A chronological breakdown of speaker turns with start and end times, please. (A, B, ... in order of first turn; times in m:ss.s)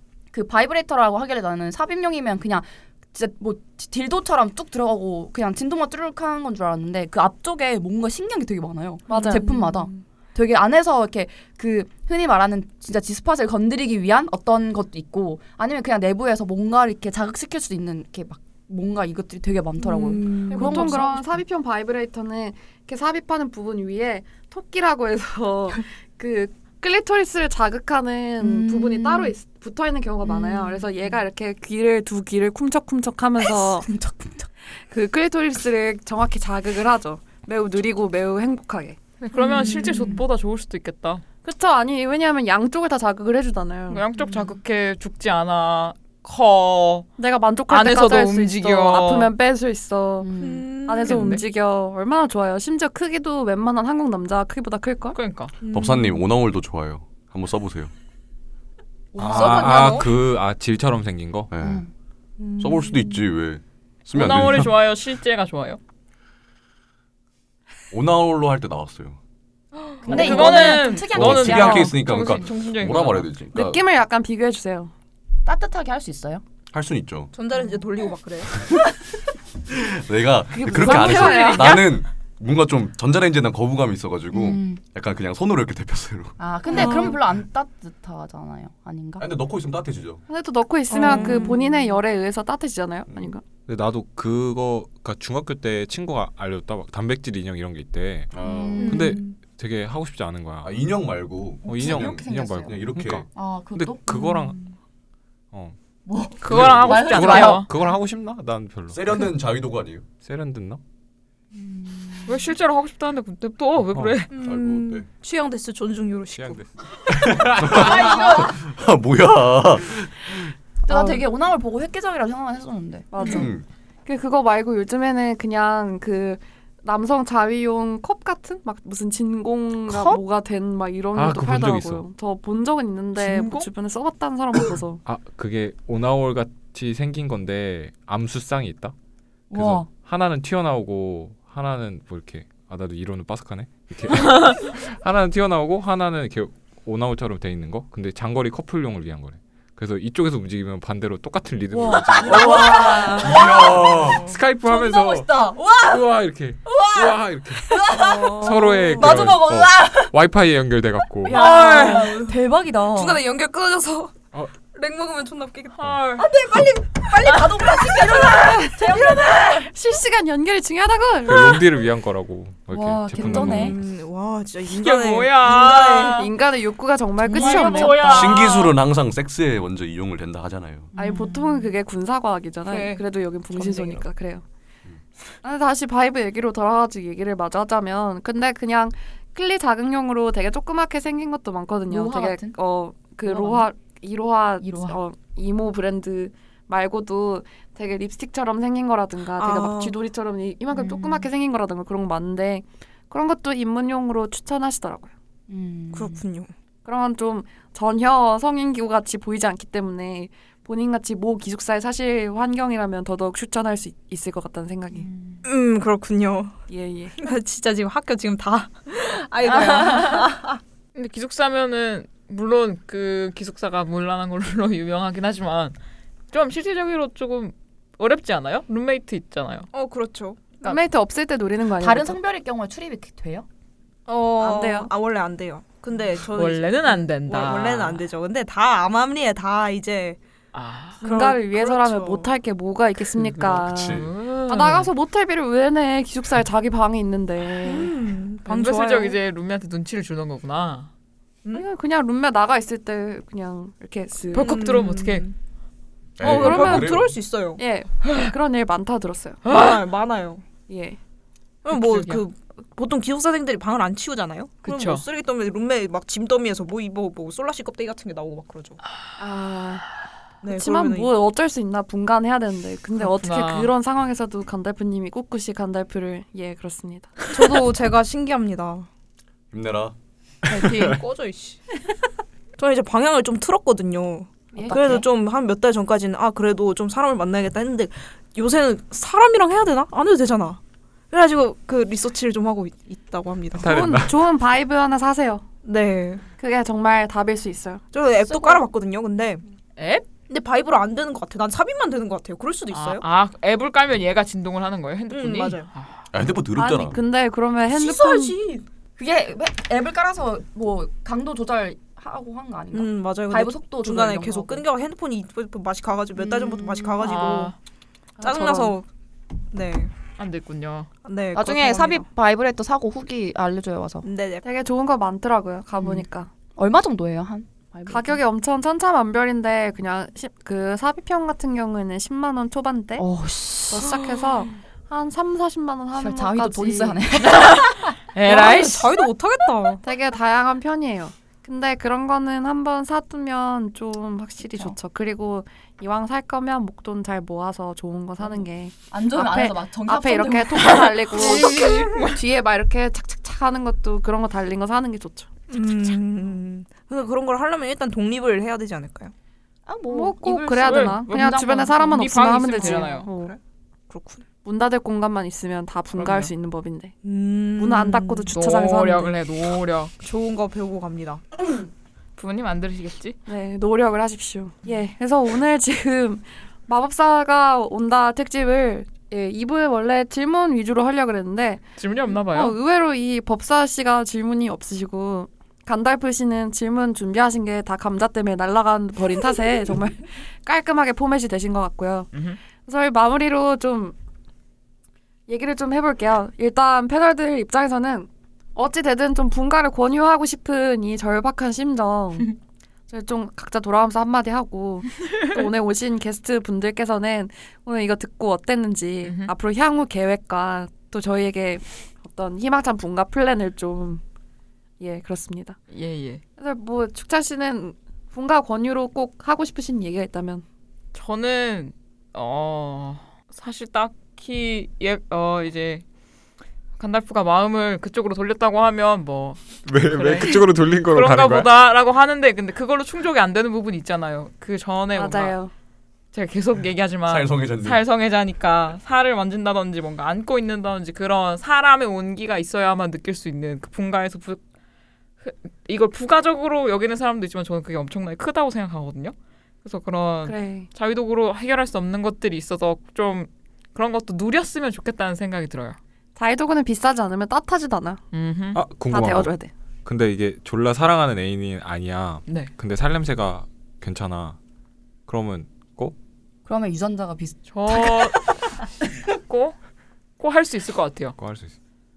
0:00.3-0:21.4 A
0:09.1-0:09.4 B
0:09.1-0:10.0 C
0:19.8-0:21.0 C
0:20.5-0:33.9 B
0:28.4-0:29.3 A
0:30.3-0:30.7 A
0:33.4-0:34.5 A
0:34.8-0:39.0 B
0:39.2-0:41.2 D
0:39.4-0:40.2 C
0:41.4-0:44.0 B
0:43.9-0:47.1 D
0:47.2-0:50.3 B
0:47.7-0:49.3 D
0:50.2-0:50.7 A
0:50.4-0:51.4 C
0:50.8-0:55.2 B
0:51.0-0:51.4 D
0:55.1-0:55.5 D
0:55.6-0:56.2 C
0:55.7-0:57.9 E
0:59.1-1:00.2 C
0:59.2-1:01.5 F
0:59.2-0:59.9 A
1:01.5-1:01.8 E
1:01.6-1:01.9 A
1:02.4-1:03.2 C
1:02.6-1:04.7 E
1:04.1-1:05.8 D
1:07.9-1:09.2 E
1:09.8-1:10.8 C
1:10.0-1:12.3 A
1:10.0-1:13.3 D
1:10.4-1:13.8 E
1:13.5-1:14.9 B
1:15.4-1:16.4 A
1:16.7-1:17.3 E
1:17.3-1:18.5 C
1:19.7-1:26.4 E
1:20.5-1:21.9 B
1:20.7-1:21.8 A
1:24.3-1:24.8 A
1:26.4-1:29.3 A
1:26.7-1:27.2 C
1:29.2-1:30.2 E
1:30.3-1:33.4 B
1:30.9-1:31.8 C
1:31.0-1:31.6 A
1:33.7-1:40.7 F
1:38.3-1:38.9 E
1:38.4-1:39.2 A
1:38.8-1:39.4 C
1:40.6-1:43.2 E
1:41.6-1:44.6 F
1:41.6-1:42.7 A
1:43.3-1:44.1 A
1:44.1-1:44.7 C
1:46.0-1:47.7 A
1:46.4-1:47.7 D
1:46.5-1:49.3 F
1:46.5-1:46.9 E
1:48.9-1:50.1 E
1:50.2-1:50.8 F
1:51.5-1:52.4 A
1:52.3-1:54.3 D
1:53.9-1:54.2 F
1:54.3-1:56.6 C
1:54.4-1:55.0 E
1:56.4-1:58.1 F
1:57.4-2:00.5 E
1:57.7-1:58.6 A
2:00.8-2:03.4 A
2:00.9-2:01.2 B
2:03.1-2:03.5 B
2:03.2-2:03.6 E
2:04.0-2:15.0 B
2:09.9-2:10.2 A
2:11.1-2:12.0 F
2:13.2-2:13.7 D
2:15.0-2:18.9 F
2:19.5-2:19.8 A
2:19.5-2:32.9 F
2:31.8-2:34.0 A
2:31.9-2:34.3 C
2:33.2-2:34.2 E
2:34.1-2:41.4 F
2:34.6-2:36.0 A
2:35.6-2:35.9 C
2:36.6-2:37.1 C
2:36.7-2:40.2 A
2:37.8-2:39.3 C
2:41.2-2:42.4 C
2:41.3-2:43.2 A
2:41.4-2:42.1 D
2:42.9-2:49.7 C
2:45.8-2:46.3 D
2:47.3-2:49.7 A
2:48.2-2:51.6 B
2:51.2-2:53.8 F
2:52.7-2:53.8 A
2:53.2-2:56.3 C
2:54.7-2:56.3 D
2:56.0-2:58.2 B
2:57.3-2:58.7 C
2:57.3-2:58.4 A
2:58.0-3:00.9 E
3:00.9-3:01.7 A
3:01.0-3:04.4 B
3:02.6-3:03.0 C
3:03.5-3:04.0 C
3:05.4-3:25.1 B
3:11.9-3:12.6 A
3:13.2-3:13.7 A
3:14.6-3:15.0 A
3:19.4-3:20.0 C
3:20.7-3:21.3 A
3:25.5-3:26.2 A
3:25.9-3:26.5 C
3:26.8-3:35.1 B
3:34.9-3:35.4 A
3:35.4-3:36.6 C
3:36.7-3:37.3 B
3:37.2-3:40.6 C
3:40.9-3:45.8 D
3:46.3-3:49.7 D
3:49.7-3:50.5 C
3:50.6-3:52.2 B
3:51.8-3:53.4 A
3:54.1-4:00.2 C
3:54.4-3:54.9 B
3:56.3-3:58.0 D
4:00.5-4:01.0 D
4:01.0-4:02.3 C
4:01.0-4:07.9 B
4:03.2-4:04.9 D
4:03.6-4:04.1 E
4:07.6-4:09.2 C
4:08.4-4:10.9 D
4:11.5-4:14.7 B
4:14.3-4:15.3 D
4:14.3-4:15.3 C
4:16.2-4:17.2 E
4:16.2-4:17.6 C
4:16.2-4:17.0 B
4:17.6-4:19.4 B
4:19.4-4:19.8 D
4:19.5-4:20.4 C
4:20.7-4:21.0 B
4:21.6-4:28.8 C
4:21.7-4:22.2 D
4:24.6-4:25.0 D
4:29.2-4:29.8 B
4:30.4-4:31.1 C
4:30.4-4:37.3 B
4:33.0-4:33.7 D
4:37.2-4:38.9 C
4:39.5-4:39.9 E
4:40.5-4:41.6 C
4:42.6-4:50.6 C
4:44.5-4:45.0 B
4:44.6-4:45.0 A
4:51.1-4:53.8 C
4:53.6-4:54.2 F
4:53.6-4:55.4 B
4:55.6-4:56.2 C
4:56.4-4:57.8 B
4:57.9-4:59.4 C
4:59.8-5:00.0 D
5:00.3-5:03.0 C
5:02.7-5:06.0 D
5:05.1-5:05.7 C
5:06.1-5:07.0 E
5:06.5-5:08.4 B
5:07.7-5:08.6 C
5:09.0-5:14.6 A
5:12.7-5:17.5 C
5:16.2-5:17.0 A
5:17.0-5:17.5 D
5:18.2-5:18.8 B
5:18.2-5:18.8 C
5:19.5-5:19.9 C
5:20.2-5:20.9 D
5:21.0-5:22.0 C
5:21.3-5:24.1 A
5:24.0-5:24.4 C
5:24.4-5:26.3 B
5:25.8-5:28.2 A
5:27.9-5:33.0 B
5:33.0-5:34.0 A
5:33.7-5:37.0 B
5:33.9-5:34.5 C
5:36.0-5:37.9 A
5:38.1-5:38.8 D
5:38.2-5:39.8 C
5:39.8-5:55.3 B
5:44.4-5:44.8 A
5:48.9-5:51.5 A
5:51.2-5:52.2 D
5:55.5-5:59.1 C
5:59.7-6:02.9 A
5:59.9-6:03.4 B
6:00.6-6:03.1 D
6:03.9-6:04.2 C
6:04.4-6:06.9 B
6:06.0-6:06.3 D
6:07.0-6:08.3 C
6:07.6-6:09.1 B
6:08.3-6:09.9 D
6:10.0-6:11.2 C
6:12.2-6:13.2 D
6:13.3-6:32.1 B
6:21.8-6:22.6 D
6:32.1-6:32.4 D
6:32.6-6:33.9 B
6:35.3-6:42.3 B
6:42.9-6:54.0 B
6:49.0-6:49.3 D
6:54.8-6:55.6 B
6:55.7-6:56.2 D
6:56.4-7:00.4 B
7:00.9-7:05.8 D
7:06.8-7:15.4 D
7:09.6-7:11.5 F
7:14.9-7:15.5 B
7:16.1-7:24.4 D
7:17.1-7:17.8 E
7:25.2-7:35.8 D
7:30.2-7:30.7 B
7:36.2-7:38.0 B
7:38.1-7:38.6 D
7:38.5-7:39.3 F
7:38.9-7:39.5 B
7:39.8-7:44.4 F
7:45.1-7:46.0 F
7:46.4-7:48.2 A
7:47.5-7:48.2 D
7:49.3-7:49.6 D
7:50.2-7:51.2 D
7:51.2-7:51.5 F